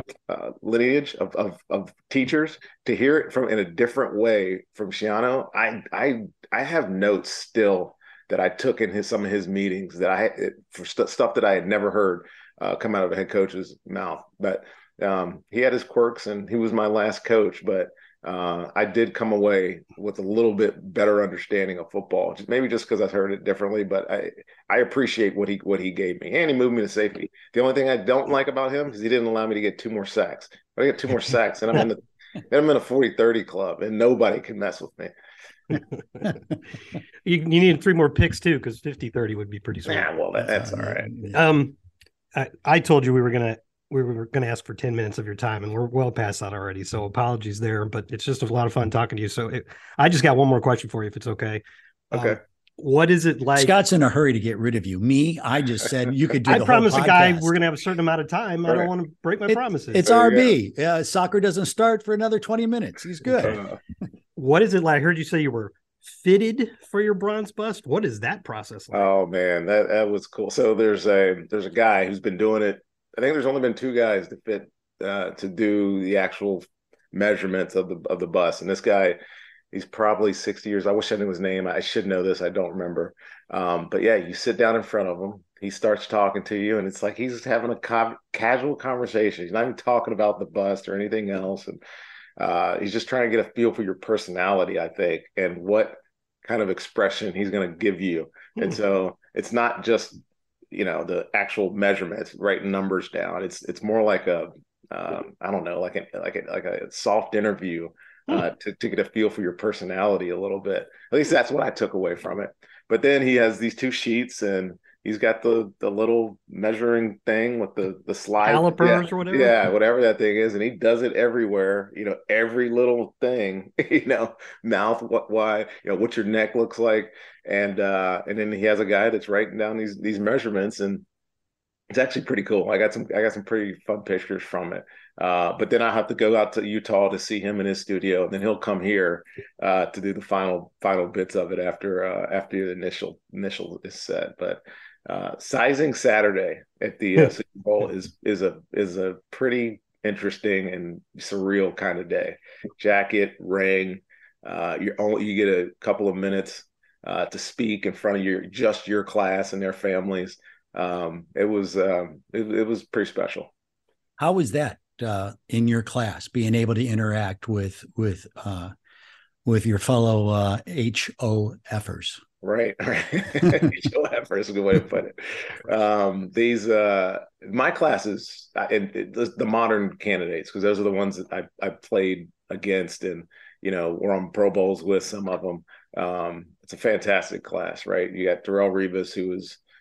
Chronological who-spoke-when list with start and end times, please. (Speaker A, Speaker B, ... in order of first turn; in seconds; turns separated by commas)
Speaker A: 0.3-35.1, Speaker B: 37.2-40.1, Speaker A: 39.9-41.2, Speaker C: 40.4-41.4, Speaker B: 41.3-41.8, Speaker B: 42.3-53.8, Speaker A: 52.1-52.4, Speaker C: 53.5-57.6, Speaker B: 56.5-60.0, Speaker C: 59.9-63.6, Speaker A: 60.0-60.5, Speaker A: 63.4-63.7, Speaker B: 64.3-69.1, Speaker A: 68.9-79.2, Speaker A: 79.7-91.8, Speaker A: 92.4-100.2, Speaker A: 100.7-131.0, Speaker B: 118.4-119.6, Speaker A: 131.9-163.5, Speaker C: 164.2-168.7, Speaker C: 169.4-172.2, Speaker A: 172.4-189.6